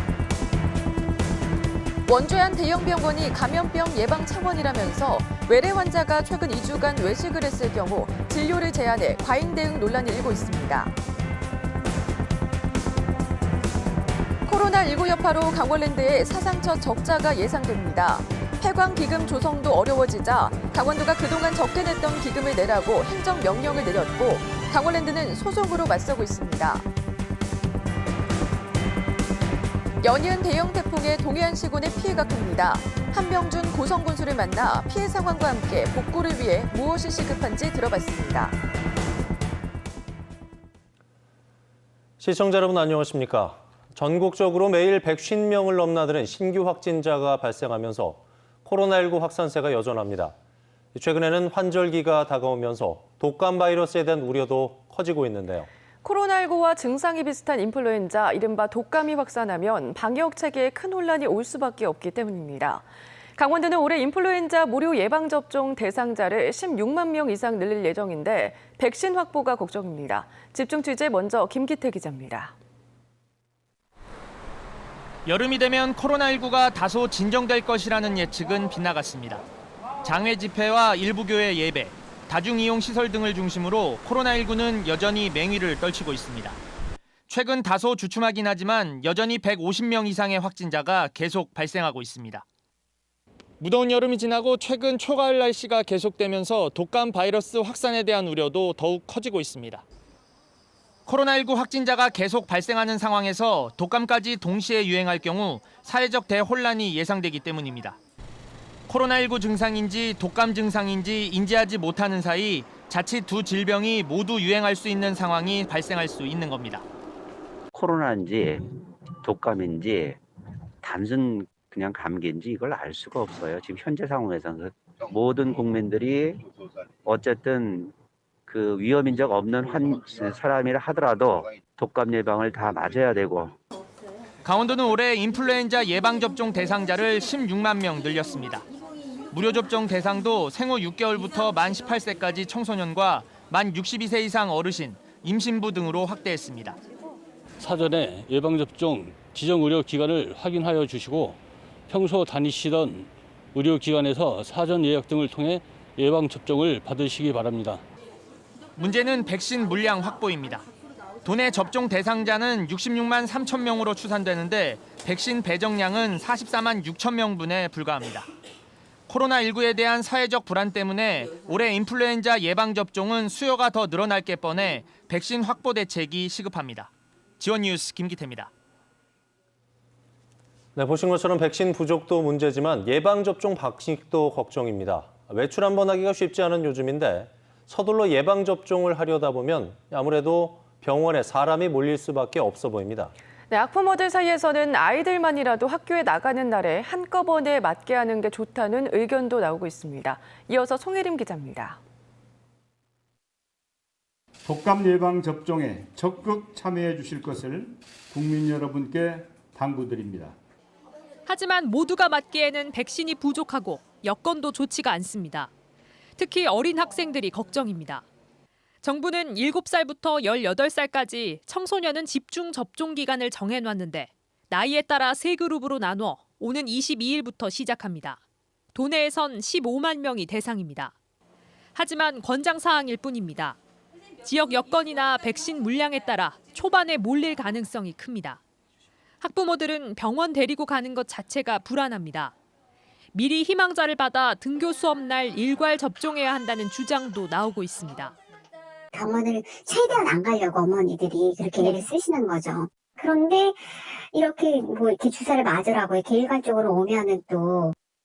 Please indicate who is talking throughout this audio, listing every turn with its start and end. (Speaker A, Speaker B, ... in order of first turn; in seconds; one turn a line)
Speaker A: 2.1-10.9
Speaker A: 14.5-26.9
Speaker A: 30.0-38.6
Speaker B: 42.2-50.3
Speaker B: 50.9-55.7
Speaker A: 56.0-62.8
Speaker A: 63.4-72.5
Speaker C: 75.2-79.4
Speaker C: 80.0-86.6
Speaker C: 87.3-92.4
Speaker C: 93.6-99.8
Speaker C: 101.1-108.0
Speaker C: 108.9-116.8
Speaker D: 117.7-120.2
Speaker D: 120.8-126.4
Speaker D: 127.0-127.9
Speaker D: 128.5-133.6
Speaker C: 134.4-138.7
Speaker C: 139.3-146.8
Speaker E: 147.6-157.8
Speaker C: 158.8-160.6
Speaker C: 161.2-168.3
Speaker C: 169.1-178.5
Speaker B: 180.8-193.1
Speaker A: 193.5-201.8
Speaker F: 204.4-210.4
Speaker G: 211.3-215.5
Speaker G: 216.2-218.0
Speaker G: 218.8-228.2
Speaker G: 228.7-230.9
Speaker G: 231.8-233.6
Speaker G: 234.2-238.4
Speaker G: 239.2-242.3
Speaker G: 243.1-248.1
Speaker H: 248.9-257.8